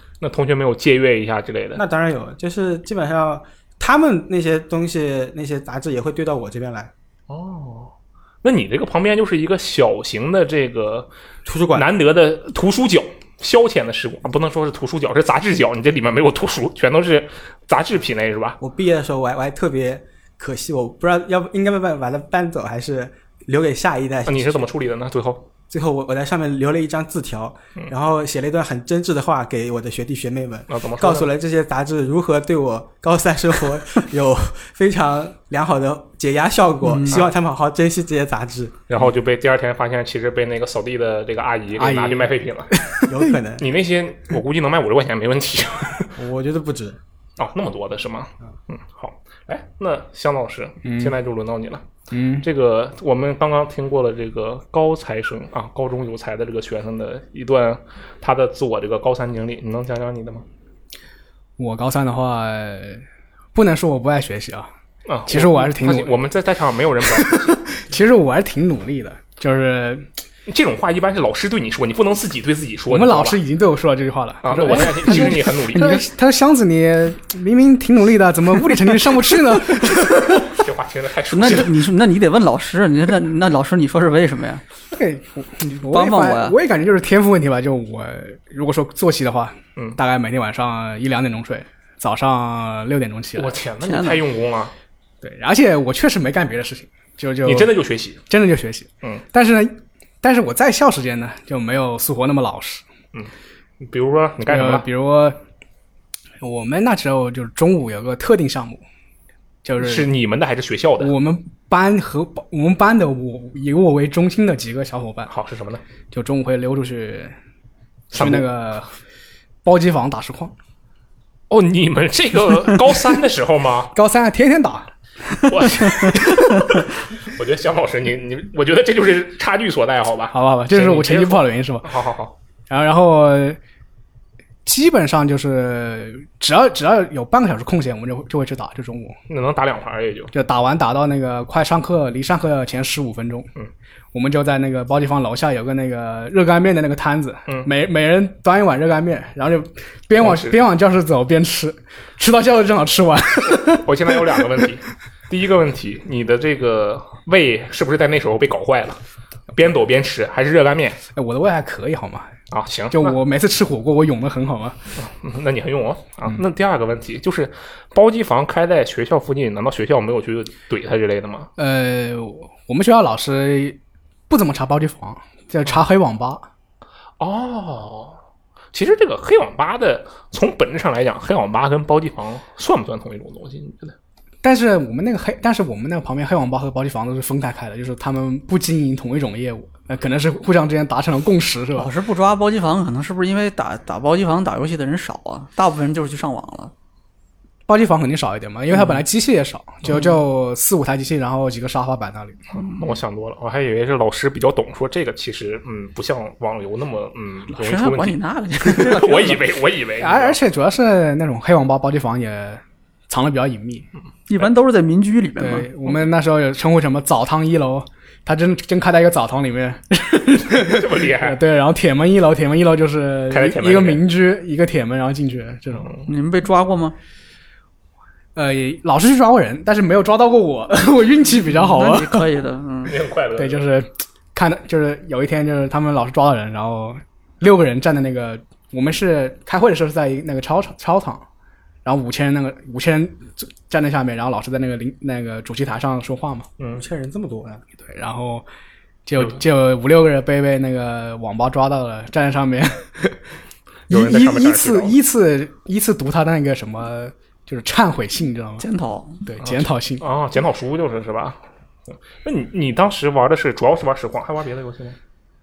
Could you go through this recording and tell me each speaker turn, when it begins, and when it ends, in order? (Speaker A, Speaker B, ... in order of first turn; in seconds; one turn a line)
Speaker A: 0.2-1.8
Speaker B: 1.7-6.9
Speaker A: 7.3-11.1
Speaker B: 11.4-11.9
Speaker A: 11.7-18.6
Speaker B: 18.6-24.7
Speaker A: 24.3-25.5
Speaker B: 25.7-38.8
Speaker A: 30.7-31.3
Speaker C: 36.8-37.2
Speaker A: 38.9-42.7
Speaker D: 41.8-43.3
Speaker B: 43.1-43.7
Speaker A: 43.6-46.1
Speaker B: 46.1-47.0
Speaker A: 47.4-51.8
Speaker D: 50.9-51.1
Speaker D: 52.1-52.4
Speaker A: 52.4-60.5
Speaker D: 61.6-63.0
Speaker D: 63.5-64.7
Speaker A: 65.1-67.6
Speaker D: 65.3-66.1
Speaker D: 67.0-70.1
Speaker A: 70.5-73.4
Speaker D: 72.9-80.6
Speaker A: 74.4-76.0
Speaker A: 79.8-81.8
Speaker C: 81.3-84.6
Speaker D: 84.9-93.6
Speaker C: 85.8-86.5
Speaker A: 93.3-94.7
Speaker C: 93.8-94.2
Speaker D: 95.2-97.8
Speaker A: 97.4-98.2
Speaker D: 98.3-102.8
Speaker A: 103.1-104.8
Speaker D: 104.5-105.4
Speaker D: 106.4-108.8
Speaker D: 109.6-110.1
Speaker A: 109.8-111.1
Speaker D: 111.0-115.3
Speaker A: 115.3-115.8
Speaker D: 116.1-117.3
Speaker A: 118.1-118.5
Speaker D: 118.1-118.9
Speaker D: 119.6-120.5
Speaker A: 121.5-123.9
Speaker D: 123.9-124.9
Speaker A: 125.5-132.3
Speaker D: 125.8-126.2
Speaker D: 130.3-131.9
Speaker D: 132.7-133.6
Speaker D: 134.6-139.2
Speaker A: 139.3-140.3
Speaker D: 140.3-143.5
Speaker D: 144.1-154.2
Speaker A: 150.2-150.6
Speaker A: 153.6-159.0
Speaker A: 159.5-161.0
Speaker D: 161.1-162.3
Speaker A: 162.5-163.2
Speaker D: 162.9-164.8
Speaker A: 165.0-171.5
Speaker D: 171.6-173.8
Speaker D: 174.3-176.5
Speaker A: 177.2-178.2
Speaker A: 178.7-183.9
Speaker D: 184.4-191.9
Speaker C: 191.8-196.7
Speaker D: 197.7-202.4
Speaker C: 198.7-199.0
Speaker A: 202.5-210.4
Speaker C: 202.6-202.8
Speaker C: 207.5-209.4
Speaker D: 210.0-213.8
Speaker C: 214.3-215.7
Speaker D: 215.4-225.9
Speaker A: 220.5-221.4
Speaker A: 223.3-224.0
Speaker A: 225.7-226.0
Speaker C: 226.1-226.9
Speaker D: 228.3-232.3
Speaker C: 231.5-233.0
Speaker A: 232.8-233.6
Speaker D: 233.3-241.2
Speaker D: 241.8-246.5
Speaker A: 246.6-246.8
Speaker B: 246.7-247.6
Speaker D: 247.8-248.4
Speaker D: 249.1-253.2
Speaker A: 253.9-255.0
Speaker D: 253.9-258.6
Speaker C: 258.6-259.2
Speaker D: 259.2-260.0
Speaker A: 259.4-264.9